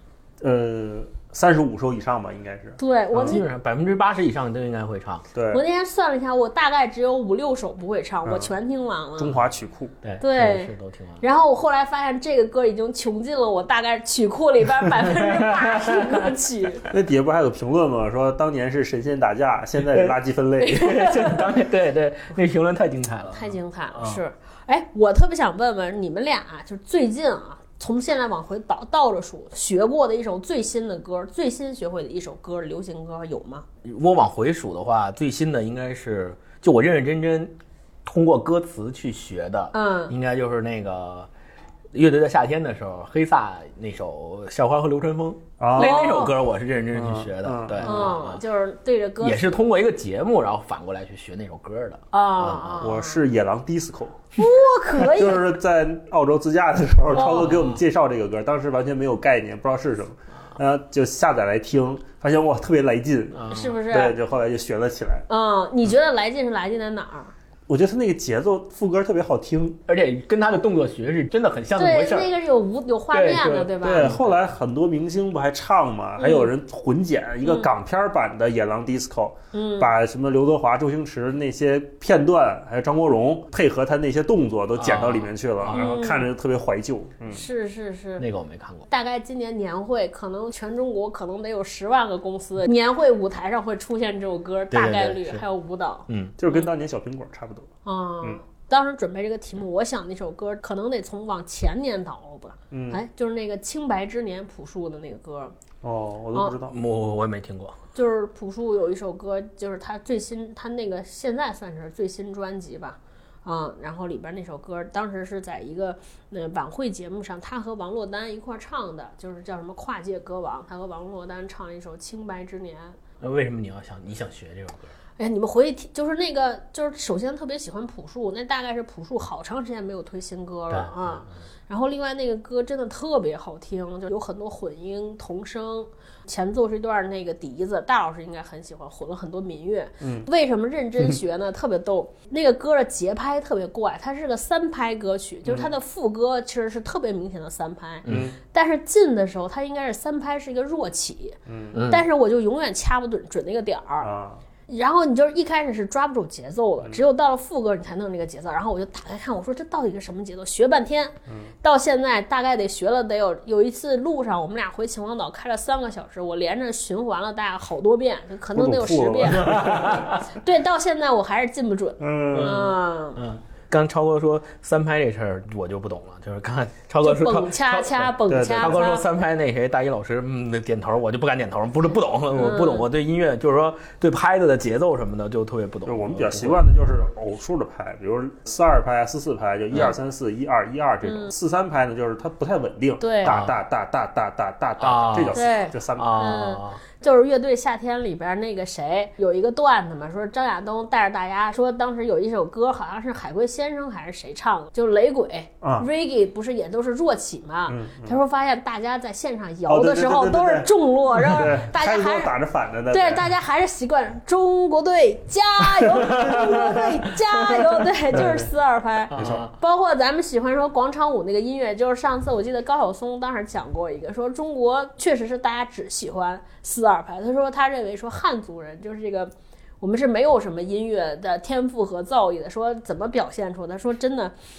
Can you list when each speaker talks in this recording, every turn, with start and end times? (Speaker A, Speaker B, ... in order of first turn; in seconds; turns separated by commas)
Speaker A: 0.4-3.4, Speaker B: 2.8-3.5, Speaker C: 3.1-5.2, Speaker A: 5.3-5.6, Speaker B: 5.5-9.4, Speaker A: 8.2-8.5, Speaker A: 9.2-9.9, Speaker C: 10.0-11.2, Speaker B: 10.2-16.9, Speaker C: 15.1-16.3, Speaker A: 16.8-21.5, Speaker C: 19.8-20.1, Speaker B: 20.7-21.4, Speaker C: 20.8-24.2, Speaker B: 23.3-33.6, Speaker C: 33.8-41.3, Speaker B: 39.7-40.1, Speaker C: 41.9-48.4, Speaker A: 45.6-46.2, Speaker B: 45.8-46.3, Speaker A: 46.9-48.2, Speaker B: 47.8-49.6, Speaker C: 49.2-52.9, Speaker B: 52.1-53.2, Speaker A: 52.8-54.3, Speaker B: 54.4-55.4, Speaker A: 55.0-65.3, Speaker B: 57.1-57.5, Speaker C: 57.2-57.8, Speaker C: 63.3-63.8, Speaker B: 63.5-64.2, Speaker B: 65.3-67.3, Speaker A: 67.7-69.8, Speaker C: 69.9-72.3, Speaker B: 71.8-74.2, Speaker C: 73.1-74.4, Speaker A: 73.8-87.4, Speaker B: 76.2-76.5, Speaker B: 77.4-77.7, Speaker B: 79.5-79.9, Speaker C: 84.8-85.8, Speaker B: 85.7-86.3, Speaker B: 87.3-88.3, Speaker C: 88.2-88.9, Speaker B: 88.9-96.7, Speaker C: 94.7-95.5, Speaker C: 96.1-96.3, Speaker A: 96.4-97.7, Speaker B: 97.8-105.5, Speaker A: 102.7-103.0, Speaker A: 105.8-106.8, Speaker C: 106.6-107.8, Speaker B: 108.0-123.0, Speaker C: 123.2-124.9, Speaker B: 125.2-154.1, Speaker C: 130.7-131.3, Speaker A: 140.0-140.2, Speaker A: 145.4-145.7, Speaker C: 148.1-148.3, Speaker A: 148.1-148.4, Speaker A: 151.5-151.8, Speaker C: 151.7-152.1, Speaker A: 154.0-154.4, Speaker B: 154.7-173.2, Speaker A: 161.3-161.5, Speaker A: 168.6-170.2, Speaker C: 169.4-170.1, Speaker A: 172.0-172.8, Speaker C: 172.3-186.6, Speaker B: 177.0-179.1, Speaker A: 178.3-178.8, Speaker B: 182.3-182.9, Speaker A: 182.3-182.6, Speaker A: 185.9-196.4, Speaker B: 191.0-191.3, Speaker B: 193.0-193.4, Speaker C: 193.2-193.6, Speaker C: 194.8-196.8, Speaker B: 195.3-212.3, Speaker A: 205.6-205.9, Speaker A: 207.7-208.2, Speaker A: 209.7-213.3, Speaker B: 212.9-234.3, Speaker A: 215.9-216.9, Speaker A: 218.1-218.5, Speaker A: 219.1-219.4, Speaker C: 219.1-219.6